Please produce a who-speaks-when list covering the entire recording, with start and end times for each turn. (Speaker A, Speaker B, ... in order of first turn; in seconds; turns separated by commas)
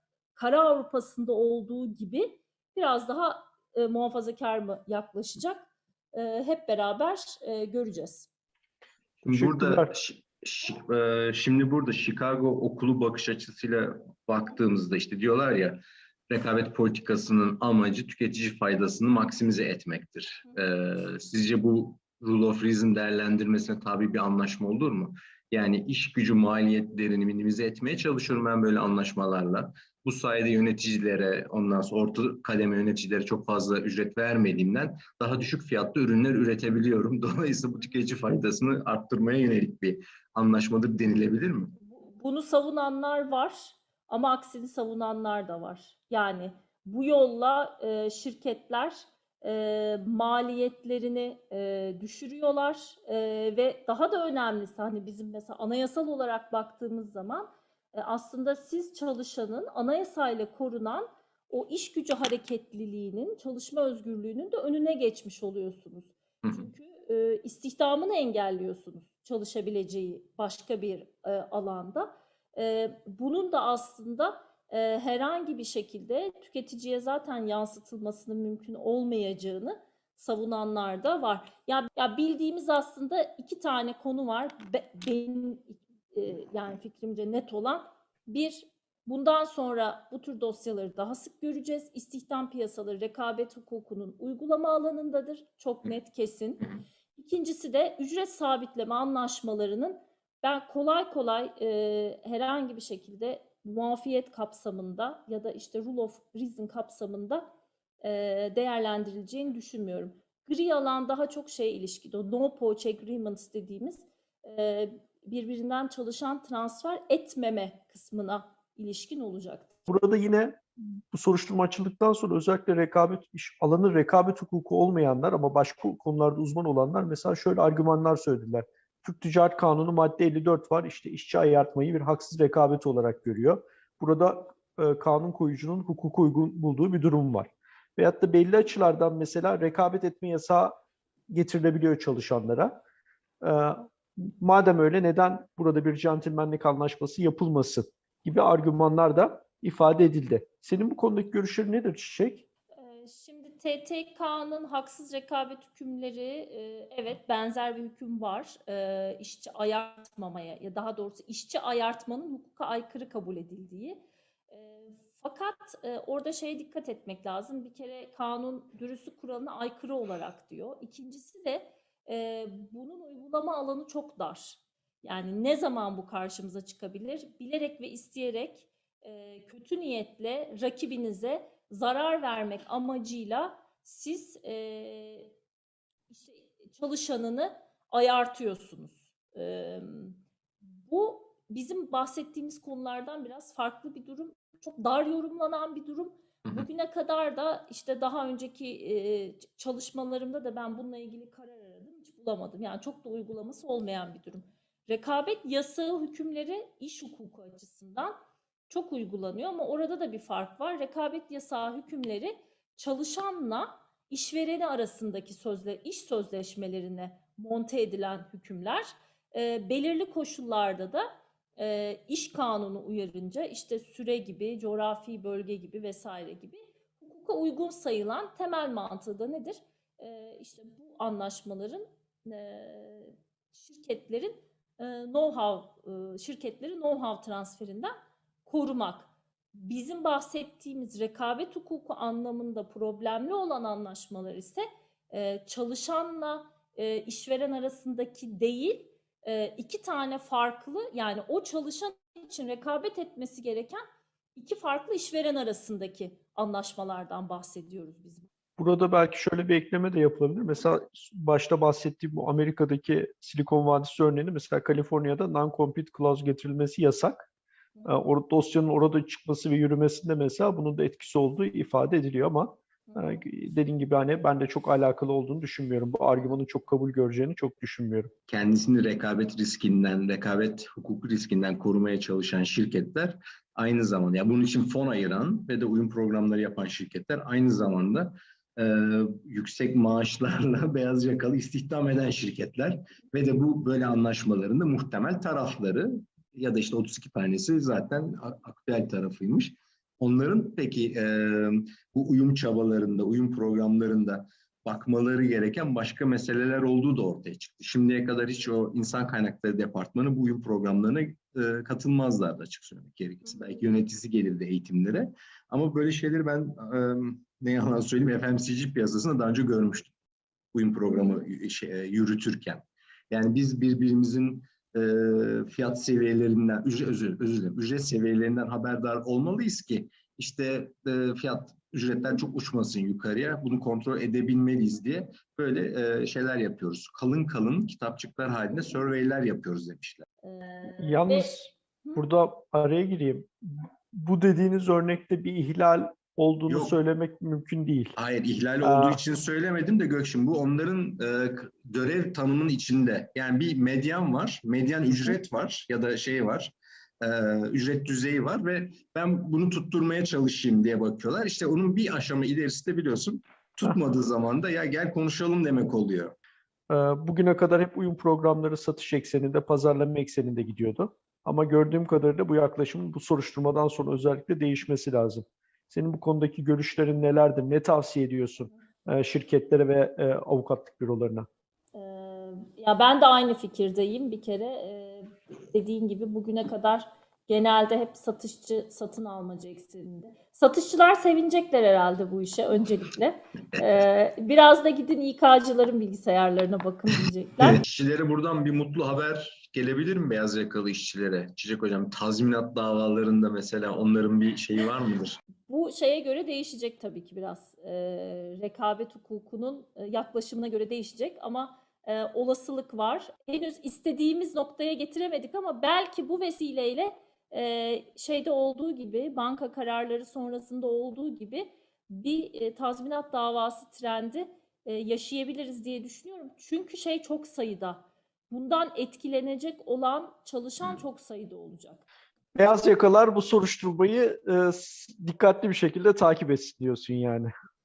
Speaker A: 0.3-8.3, Speaker B: 9.2-41.8, Speaker C: 9.3-9.9, Speaker A: 41.8-107.5, Speaker A: 108.0-119.7, Speaker C: 119.9-140.7, Speaker C: 141.3-142.8, Speaker C: 143.4-152.4, Speaker A: 152.8-185.3, Speaker A: 186.1-190.2, Speaker A: 190.8-208.1, Speaker A: 208.7-221.1, Speaker A: 221.6-237.9, Speaker A: 238.4-253.8, Speaker A: 254.3-258.3, Speaker C: 258.6-267.3, Speaker C: 267.9-278.1, Speaker A: 272.9-273.2, Speaker B: 278.3-319.9, Speaker B: 320.5-340.1, Speaker A: 340.2-342.0, Speaker C: 340.8-347.9, Speaker B: 346.5-346.8, Speaker B: 348.0-366.1, Speaker C: 348.6-349.0, Speaker C: 366.7-381.3, Speaker A: 381.7-397.6, Speaker B: 397.4-405.2, Speaker A: 405.5-431.8, Speaker C: 432.4-437.3